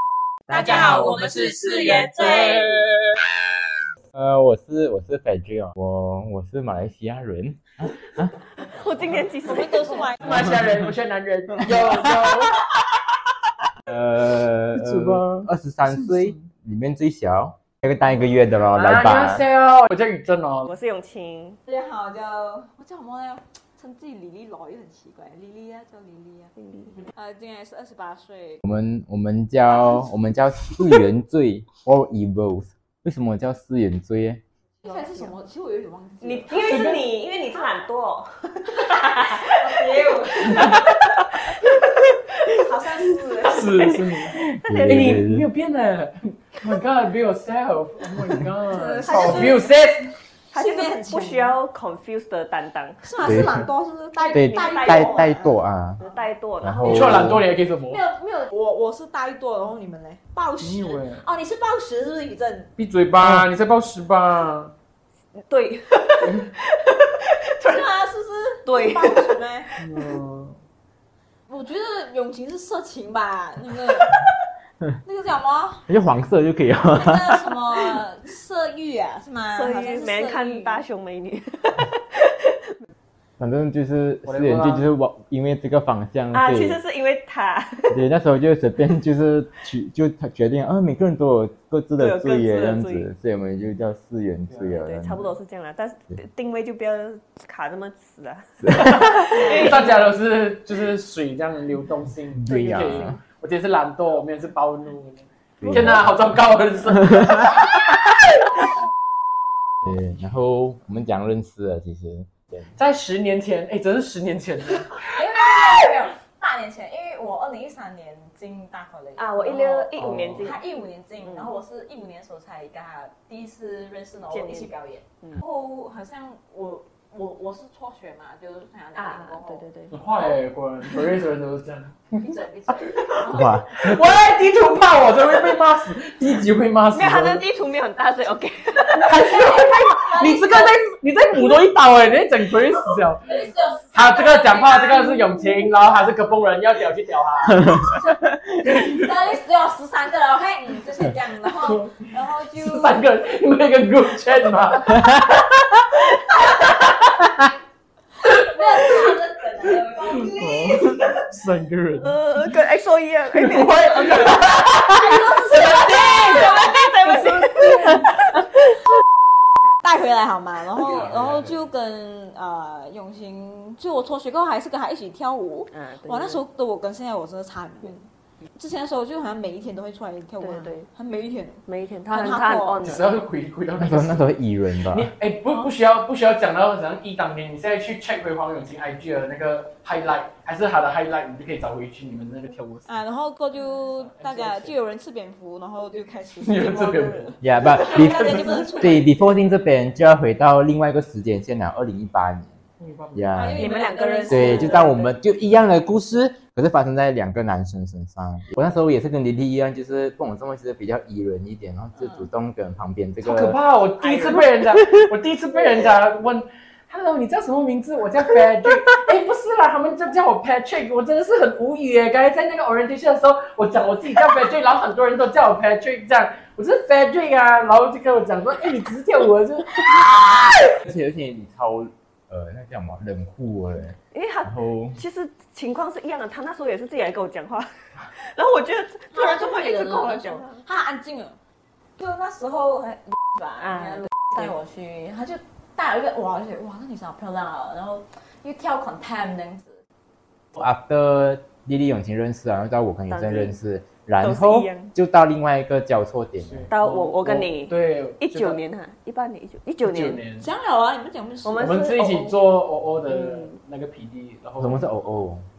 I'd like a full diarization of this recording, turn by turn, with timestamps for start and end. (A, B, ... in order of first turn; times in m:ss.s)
0:00.5-0:02.7 A
0:00.5-0:02.9 B
0:04.1-0:08.3 C
0:08.6-0:10.1 D
0:09.4-0:10.4 A
0:10.2-0:12.6 B
0:11.6-0:12.1 C
0:13.8-0:19.4 C
0:14.7-0:16.4 B
0:18.7-0:20.7 B
0:20.7-0:21.6 D
0:21.6-0:26.5 A
0:26.6-0:27.0 D
0:27.1-0:28.6 A
0:28.6-0:34.4 C
0:34.8-0:36.7 A
0:34.8-0:35.3 D
0:36.2-0:45.2 D
0:36.6-0:37.0 B
0:39.2-0:41.0 A
0:42.5-0:44.0 A
0:43.4-0:50.1 B
0:44.4-0:45.4 C
0:48.7-0:49.7 A
0:49.0-0:49.6 D
0:50.5-0:53.5 D
0:50.5-0:51.6 A
0:53.0-0:56.2 A
0:53.2-0:53.7 C
0:54.2-0:55.3 D
0:54.3-0:56.0 C
0:56.0-0:57.3 D
0:56.6-0:57.4 C
0:56.8-0:58.0 B
0:57.9-1:02.7 A
1:00.6-1:01.2 B
1:02.8-1:04.7 B
1:03.2-1:03.5 C
1:05.5-1:07.9 D
1:07.6-1:09.7 A
1:08.6-1:09.8 D
1:09.8-1:10.6 B
1:11.5-1:14.2 A
1:15.0-1:15.8 A
1:15.9-1:17.4 C
1:16.9-1:20.8 A
1:19.5-1:22.9 D
1:23.4-1:26.8 C
1:24.2-1:24.9 B
1:26.3-1:28.0 D
1:27.9-1:35.4 C
1:32.0-1:33.1 D
1:34.8-1:40.0 D
1:38.7-1:47.8 B
1:39.4-1:39.9 A
1:42.3-1:43.2 C
1:42.8-1:43.2 D
1:45.6-1:46.1 C
1:49.8-1:52.7 C
1:52.7-1:55.1 B
1:55.1-2:09.6 A
1:59.2-2:00.6 D
2:00.0-2:00.5 B
2:01.2-2:01.5 D
2:04.3-2:05.4 D
2:09.0-2:09.9 D
2:09.9-2:17.4 B
2:10.2-2:11.1 A
2:12.2-2:13.6 A
2:13.2-2:14.2 C
2:16.9-2:19.1 D
2:18.8-2:20.8 A
2:18.9-2:23.2 B
2:23.2-2:25.4 A
2:23.9-2:27.9 B
2:28.8-2:33.1 A
2:31.5-2:31.9 B
2:32.6-2:37.3 B
2:38.2-2:41.2 A
2:38.8-2:39.2 B
2:40.0-2:42.2 B
2:42.0-2:44.5 D
2:43.3-2:48.0 B
2:43.9-2:48.0 A
2:45.4-2:48.0 D
2:49.8-3:02.9 A
2:55.7-2:56.4 D
3:00.4-3:00.9 D
3:01.6-3:03.1 D
3:02.8-3:04.3 B
3:03.8-3:05.1 C
3:04.9-3:12.9 B
3:12.8-3:19.1 A
3:13.9-3:14.7 B
3:16.4-3:18.7 B
3:17.4-3:22.5 C
3:22.8-3:23.5 B
3:23.1-3:23.7 C
3:23.3-3:25.1 A
3:23.6-3:24.8 D
3:24.3-3:33.6 C
3:32.0-3:32.3 A
3:33.2-3:50.1 B
3:50.7-3:55.0 C
3:54.1-4:00.6 D
3:59.1-4:01.4 A
4:02.0-4:09.8 A
4:03.6-4:04.5 D
4:10.5-4:16.7 C
4:13.1-4:13.5 D
4:14.2-4:14.9 D
4:16.4-4:18.6 B
4:16.7-4:20.2 D
4:19.8-4:20.5 B
4:20.4-4:21.7 A
4:21.4-4:22.4 D
4:21.6-4:24.8 B
4:23.1-4:23.6 D
4:24.6-4:25.4 C